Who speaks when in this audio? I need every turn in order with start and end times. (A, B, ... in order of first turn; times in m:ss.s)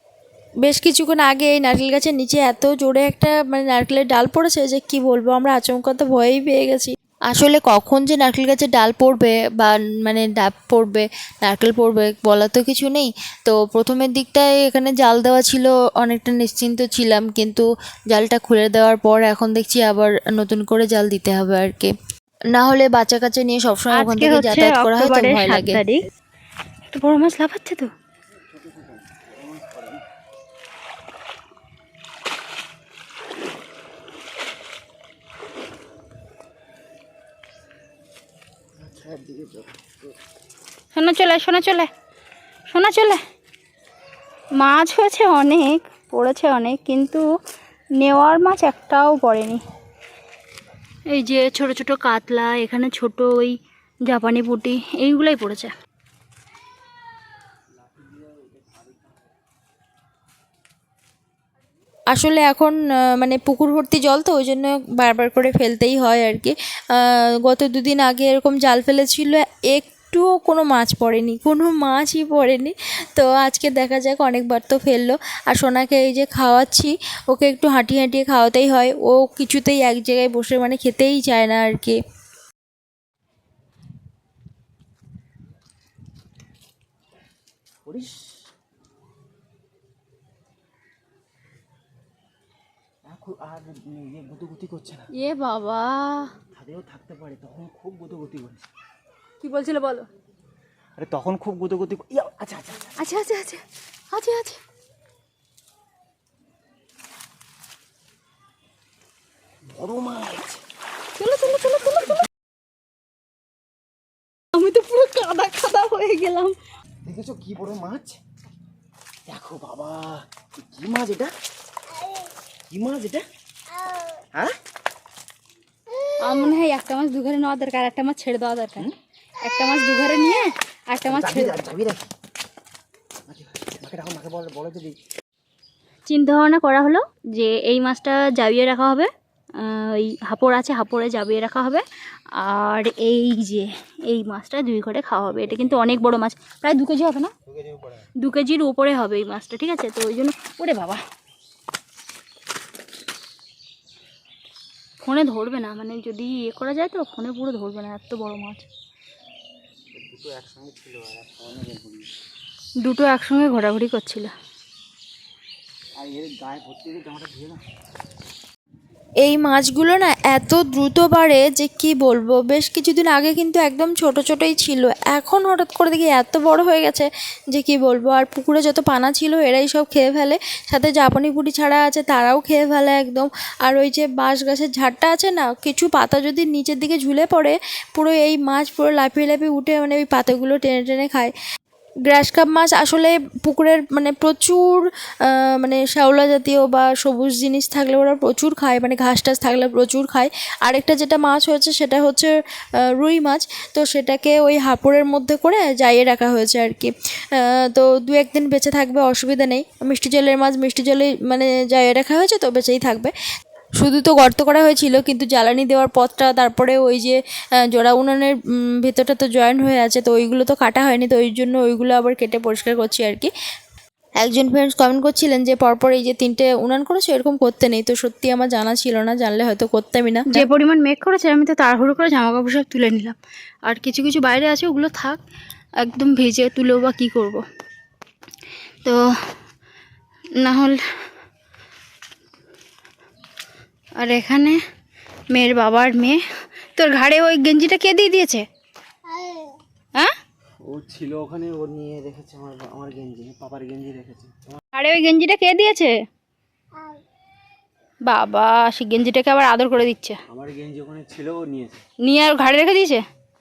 0:00.6-0:21.9 A
0:22.5-0:25.8 A
0:23.9-0:26.0 B
0:26.9-0:27.9 B
0:28.5-0:30.0 C
0:38.8-0:40.0 C
0:40.9-0:41.9 B
0:42.7-0:43.2 B
0:44.6-0:47.3 B
0:48.0-0:49.6 B
0:51.1-0:55.7 B
0:57.8-0:59.2 C
1:02.1-1:22.0 A
1:27.9-1:28.5 C
1:33.1-1:35.1 C
1:35.1-1:36.3 B
1:36.5-1:38.7 C
1:39.4-1:40.1 B
1:41.0-1:43.0 C
1:43.0-1:44.6 B
1:49.7-1:50.6 C
1:51.2-1:52.2 B
1:54.5-1:56.6 B
1:57.0-1:58.2 C
1:59.3-2:01.3 C
2:02.7-2:03.2 C
2:06.2-2:08.9 B
2:09.4-2:11.5 B
2:11.1-2:12.1 C
2:13.3-2:15.0 C
2:16.1-2:21.8 B
2:22.4-2:27.3 B
2:27.5-2:28.1 C
2:28.2-2:31.0 B
2:35.0-2:38.7 B
2:39.9-2:42.1 C
2:42.8-2:44.3 B
2:46.0-2:47.6 C
2:49.2-3:11.3 A
3:12.1-3:22.3 A
3:22.9-3:33.1 A
3:33.8-3:43.3 A
3:44.2-3:50.4 A
3:50.3-3:55.2 B
3:55.8-3:57.4 B
4:00.4-4:00.8 B
4:04.0-4:04.6 B
4:05.3-4:06.2 B
4:06.8-4:08.4 B
4:10.7-4:14.6 C
4:14.7-4:16.0 B
4:18.0-4:20.2 B
4:20.3-4:21.8 C
4:22.0-4:23.0 B